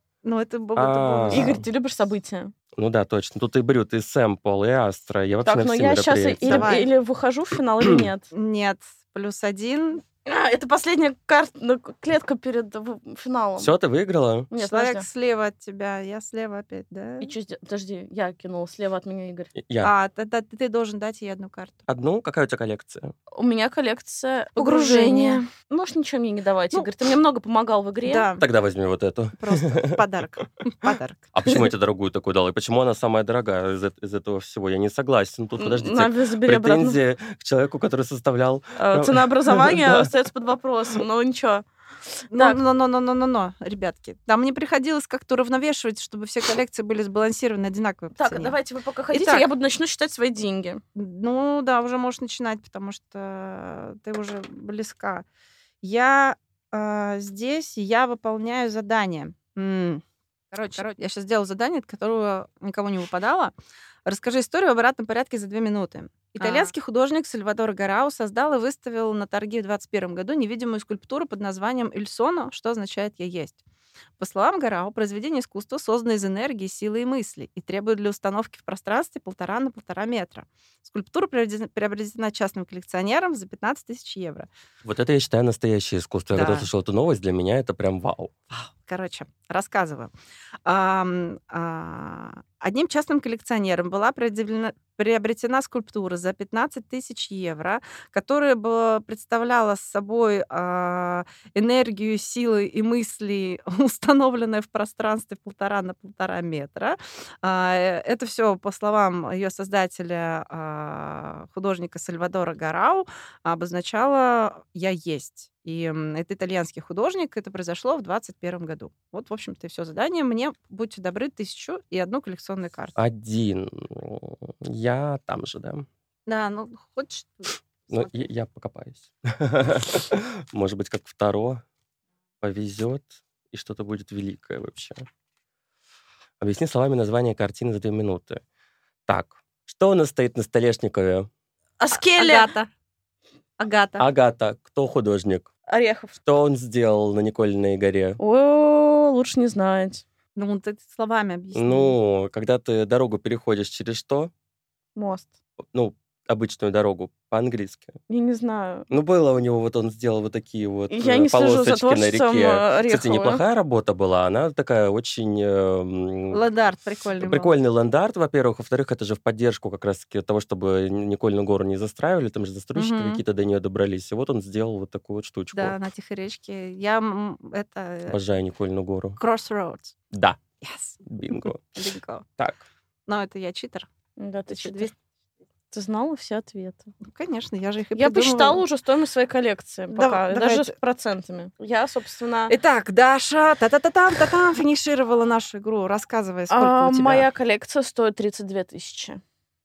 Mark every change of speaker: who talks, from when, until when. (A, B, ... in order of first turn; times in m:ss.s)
0:00.2-0:01.6 A
0:00.8-0:01.6 B
0:01.3-0:02.5 C
0:02.8-0:06.7 B
0:05.4-0:08.3 C
0:06.4-0:06.9 A
0:07.8-0:08.1 B
0:08.3-0:10.0 A
0:10.3-0:13.7 C
0:13.6-0:14.5 B
0:14.5-0:15.1 C
0:14.6-0:17.3 A
0:17.2-0:19.5 C
0:19.6-0:19.9 B
0:19.8-0:21.8 A
0:21.9-0:23.1 B
0:23.3-0:28.3 C
0:24.6-0:25.4 A
0:28.0-0:28.4 A
0:28.4-0:30.0 B
0:29.4-0:31.3 A
0:31.3-0:40.1 B
0:35.6-0:37.0 C
0:38.8-0:41.6 C
0:42.2-0:42.6 C
0:42.3-0:48.6 A
0:48.2-0:50.8 C
0:49.1-0:49.5 A
0:51.0-0:55.2 A
0:55.8-1:03.5 A
1:04.1-1:13.6 A
1:06.4-1:06.7 C
1:14.2-1:24.5 A
1:24.8-1:28.3 B
1:26.3-1:26.7 A
1:28.5-1:30.1 A
1:30.6-2:03.0 A
2:03.0-2:05.9 B
2:06.3-2:08.3 A
2:07.9-2:11.6 B
2:12.4-2:15.1 B
2:16.4-2:18.4 B
2:19.1-2:21.3 B
2:21.8-2:22.5 C
2:22.0-2:22.7 A
2:23.6-2:24.1 A
2:24.0-2:25.5 B
2:25.7-2:26.2 C
2:26.2-2:28.2 B
2:28.2-2:30.0 C
2:30.4-2:32.0 A
2:31.5-2:34.3 B
2:35.0-2:35.3 C
2:35.7-2:38.0 B
2:38.1-2:38.9 C
2:38.9-2:46.4 B
2:40.9-2:43.4 C
2:46.3-2:47.6 A
2:47.2-2:55.8 B
2:52.8-2:53.2 A
2:55.5-2:58.2 A
2:58.1-2:59.2 B
2:59.2-3:00.0 A
3:00.1-3:00.4 B
3:00.6-3:02.3 A
3:01.0-3:01.6 B
3:03.1-3:03.9 A
3:04.2-3:04.9 C
3:04.5-3:04.9 A
3:05.7-3:06.9 C
3:07.0-3:08.6 A
3:08.0-3:12.5 C
3:09.9-3:10.8 A
3:12.5-3:17.3 A
3:16.5-3:19.2 C